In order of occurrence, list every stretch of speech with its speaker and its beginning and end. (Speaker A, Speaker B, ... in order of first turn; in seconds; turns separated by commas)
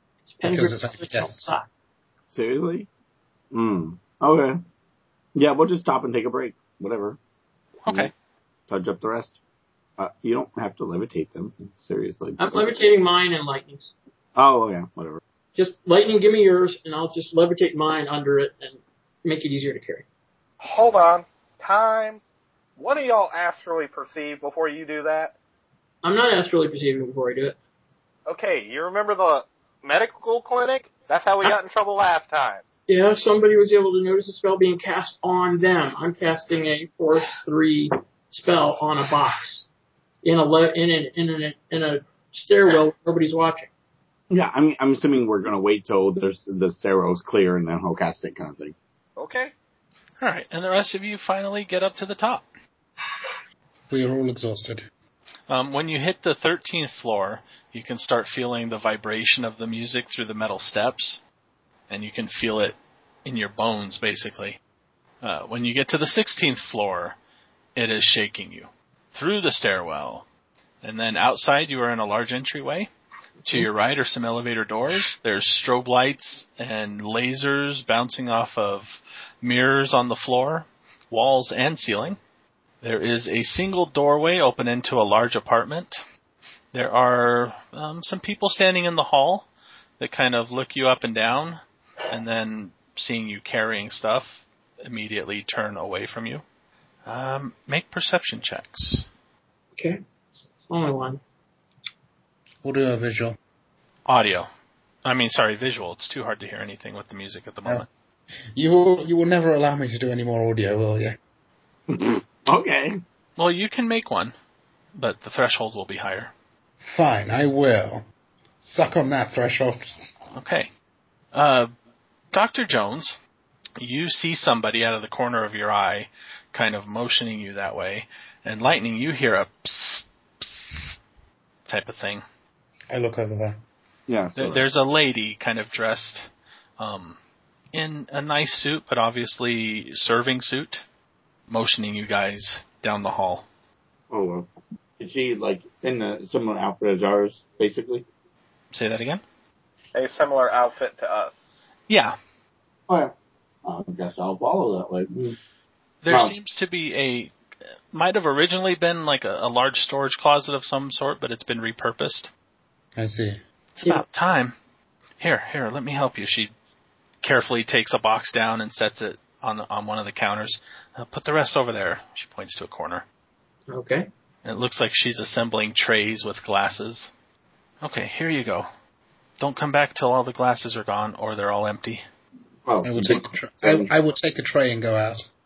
Speaker A: 0.3-1.7, Speaker B: 0.4-1.5, Speaker C: 2.3-2.9, Speaker C: 3.5-4.6, Speaker C: 5.3-7.2, Speaker D: 7.8-8.1, Speaker C: 7.9-8.1, Speaker C: 8.7-9.3, Speaker C: 10.0-12.8, Speaker A: 12.4-13.9, Speaker C: 14.4-15.2, Speaker A: 15.6-20.1, Speaker E: 20.6-22.2, Speaker E: 22.8-25.3, Speaker A: 26.0-27.6, Speaker E: 28.3-32.6, Speaker A: 32.9-39.7, Speaker A: 40.2-43.7, Speaker C: 44.3-48.8, Speaker E: 49.2-49.5, Speaker D: 50.2-52.5, Speaker B: 53.9-54.9, Speaker D: 55.5-61.2, Speaker D: 61.9-64.6, Speaker D: 65.2-67.2, Speaker D: 67.8-70.2, Speaker D: 70.8-72.9, Speaker D: 73.5-82.2, Speaker D: 82.8-86.0, Speaker D: 86.7-89.5, Speaker D: 90.0-96.4, Speaker D: 97.0-99.1, Speaker A: 100.7-101.2, Speaker B: 102.6-103.4, Speaker D: 104.1-104.5, Speaker D: 105.0-107.9, Speaker B: 108.5-111.2, Speaker C: 111.9-113.0, Speaker D: 113.4-114.3, Speaker D: 115.0-116.3, Speaker B: 116.8-118.0, Speaker B: 118.6-120.0, Speaker D: 120.3-120.7, Speaker D: 121.3-121.7, Speaker D: 122.3-123.2, Speaker D: 123.8-131.0, Speaker D: 131.7-132.2, Speaker B: 132.9-133.6, Speaker C: 134.1-134.6, Speaker D: 134.4-137.2, Speaker D: 137.7-140.8, Speaker D: 141.5-143.4, Speaker C: 144.1-144.5, Speaker C: 145.0-148.1, Speaker D: 148.7-149.2, Speaker E: 149.9-151.4, Speaker D: 151.9-152.2, Speaker C: 152.9-155.4, Speaker D: 156.0-157.3, Speaker C: 156.1-156.3, Speaker D: 157.9-162.3, Speaker B: 163.0-163.4, Speaker D: 163.7-164.6, Speaker D: 165.2-166.5, Speaker D: 167.2-173.1, Speaker A: 173.7-174.1, Speaker D: 174.4-177.1, Speaker D: 177.8-178.7, Speaker D: 179.4-182.0, Speaker C: 182.7-183.9, Speaker B: 182.8-185.3